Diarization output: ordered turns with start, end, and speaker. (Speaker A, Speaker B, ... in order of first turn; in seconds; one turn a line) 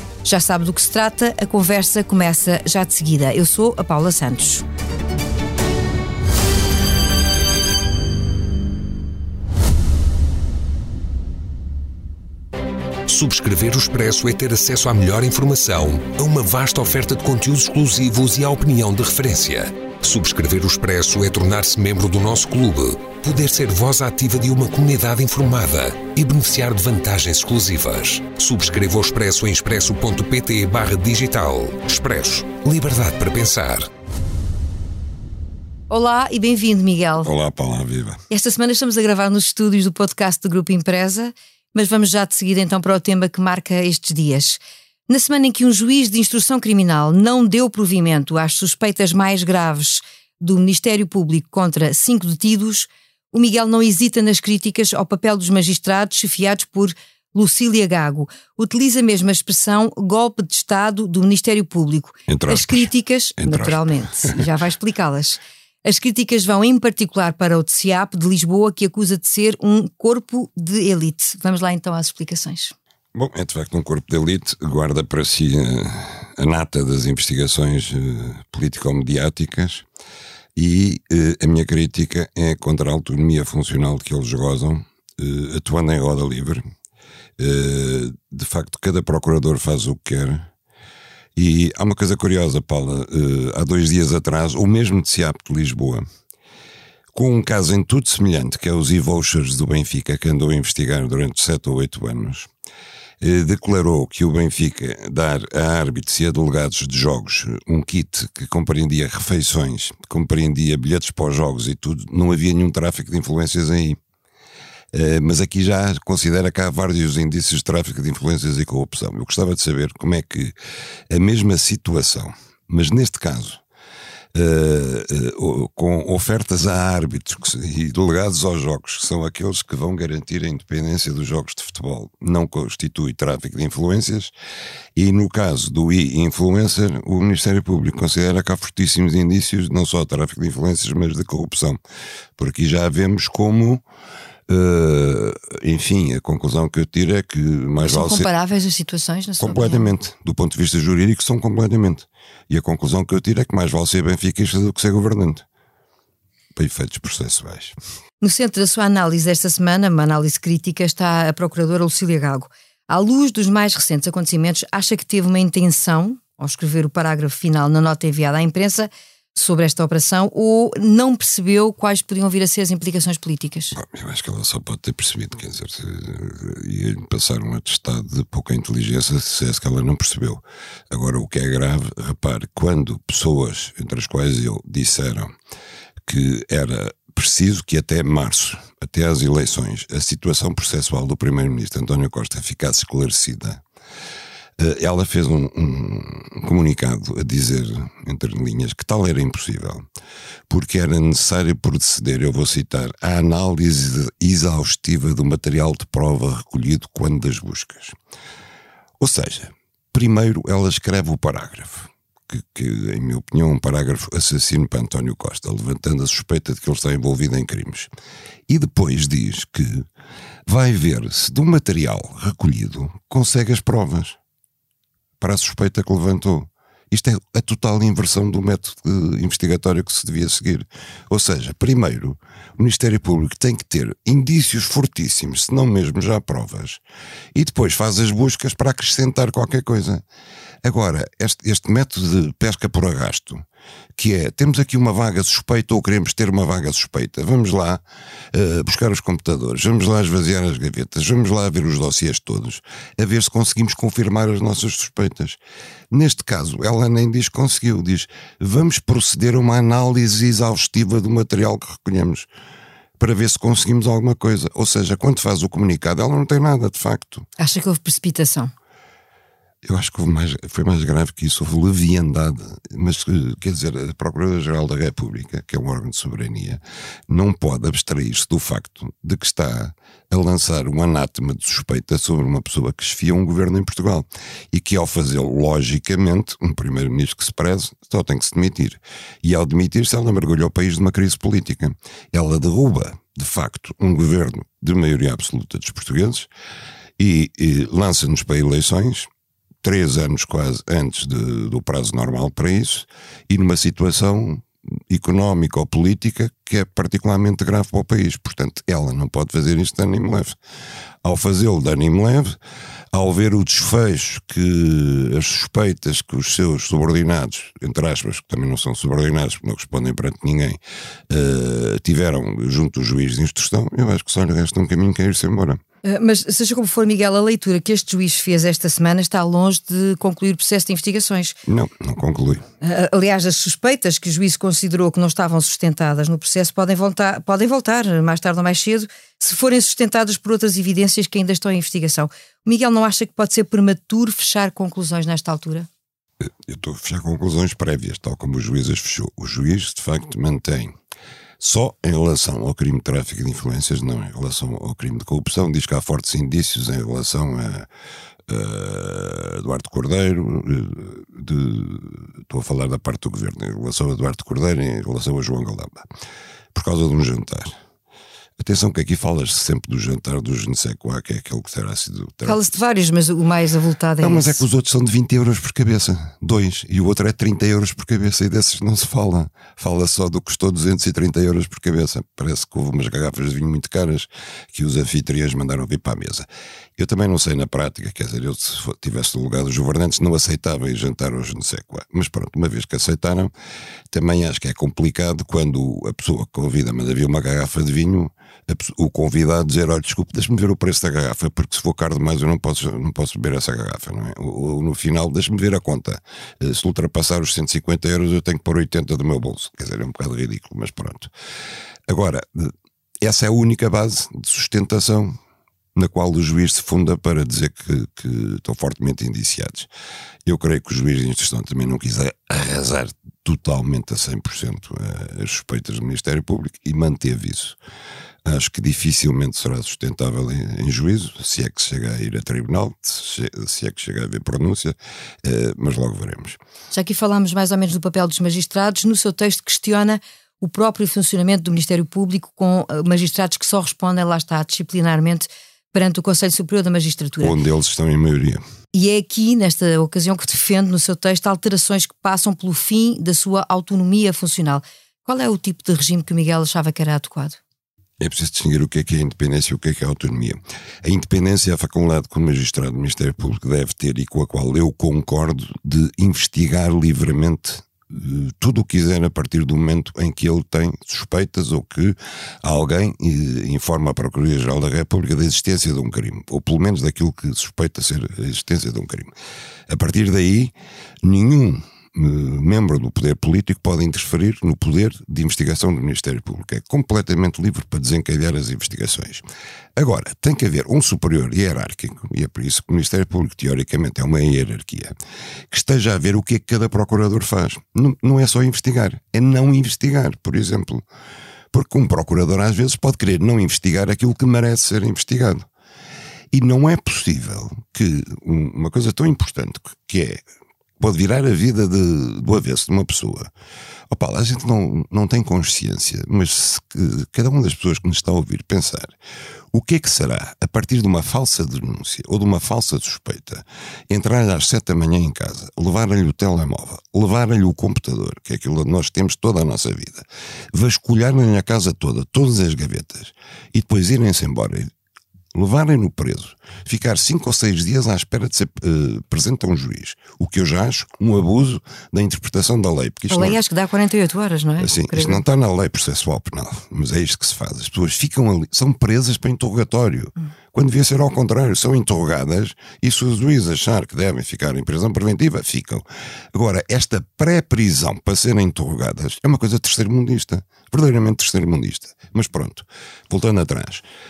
Speaker A: 0.2-4.7
Speaker B: 13.1-33.9
Speaker A: 35.9-37.3
Speaker C: 37.2-38.2
Speaker A: 38.3-72.7
Speaker C: 62.3-64.4
Speaker C: 73.1-79.9
Speaker C: 80.6-86.6
Speaker C: 87.4-90.5
Speaker C: 91.4-96.0
Speaker C: 97.1-102.5
Speaker C: 103.2-114.0
Speaker C: 114.9-120.5
Speaker C: 121.1-123.6
Speaker C: 124.3-134.3
Speaker C: 135.0-141.8
Speaker C: 142.4-143.8
Speaker C: 144.5-148.3
Speaker A: 147.8-149.9
Speaker C: 149.4-155.4
Speaker C: 156.6-157.8
Speaker A: 158.2-173.8
Speaker C: 173.8-185.3
Speaker C: 186.1-193.6
Speaker C: 194.6-199.8
Speaker C: 200.5-208.0
Speaker C: 209.0-217.9
Speaker C: 218.5-219.9
Speaker C: 220.5-224.2
Speaker C: 225.2-236.8
Speaker C: 237.3-240.0
Speaker C: 240.6-243.4
Speaker C: 244.0-255.4
Speaker C: 255.9-262.3
Speaker C: 263.0-267.3
Speaker A: 267.4-268.5
Speaker C: 269.6-296.3
Speaker C: 297.0-299.1
Speaker C: 299.6-310.4
Speaker C: 311.0-312.4
Speaker C: 312.9-325.6
Speaker A: 325.8-331.4
Speaker C: 331.5-332.4
Speaker A: 332.6-345.7
Speaker C: 346.2-350.7
Speaker C: 351.4-357.7
Speaker C: 358.3-365.9
Speaker C: 366.5-367.5
Speaker C: 368.4-372.4
Speaker A: 372.2-374.4
Speaker C: 374.0-393.3
Speaker C: 393.9-411.1
Speaker C: 411.9-415.2
Speaker C: 415.8-419.7
Speaker C: 420.2-427.6
Speaker C: 428.2-436.4
Speaker A: 436.7-447.4
Speaker C: 447.2-448.4
Speaker A: 448.7-457.4
Speaker C: 458.0-479.1
Speaker C: 479.7-489.2
Speaker C: 489.8-494.9
Speaker C: 495.5-500.9
Speaker C: 501.5-505.5
Speaker C: 506.3-510.2
Speaker C: 510.8-513.3
Speaker C: 513.9-519.0
Speaker C: 519.5-534.7
Speaker C: 535.3-543.4
Speaker A: 543.1-545.2
Speaker C: 544.6-563.9